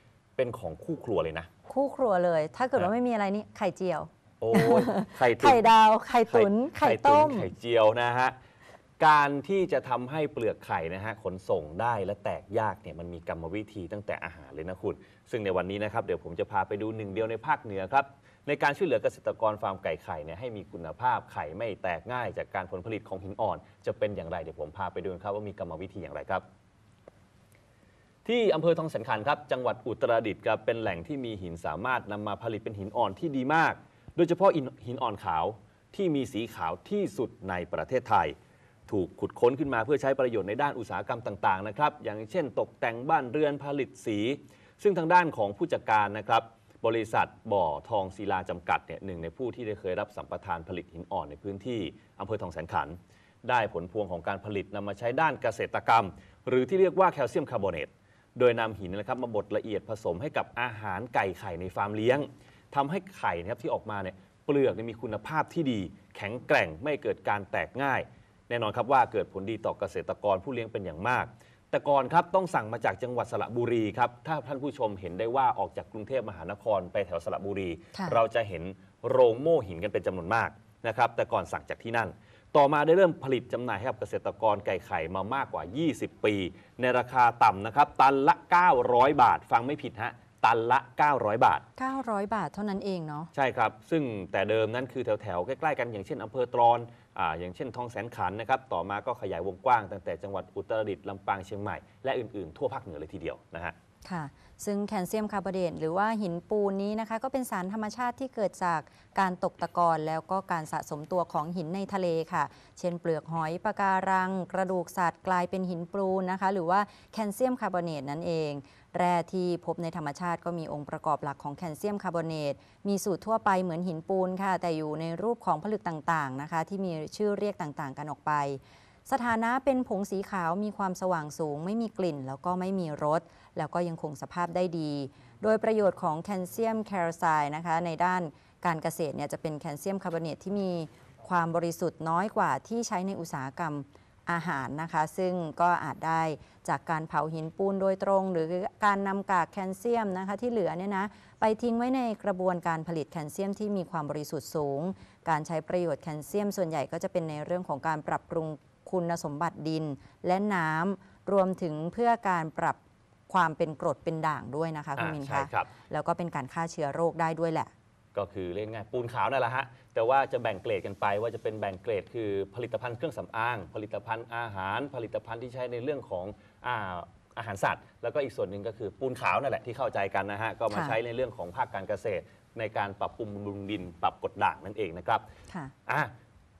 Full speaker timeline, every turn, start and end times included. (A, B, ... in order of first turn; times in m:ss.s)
0:00.4-0:01.5 A
0:01.7-0:07.5 B
0:04.4-0:05.7 A
0:06.3-0:08.4 A
0:09.0-0:26.4 A
0:28.2-0:38.3 A
0:38.9-1:31.6 A
1:17.9-1:18.2 B
1:31.8-1:33.3 B
1:33.3-1:43.7 A
1:44.0-2:47.7 B
2:45.0-2:45.7 A
2:48.1-3:05.2 A
3:00.7-3:01.0 B
3:05.9-3:06.1 A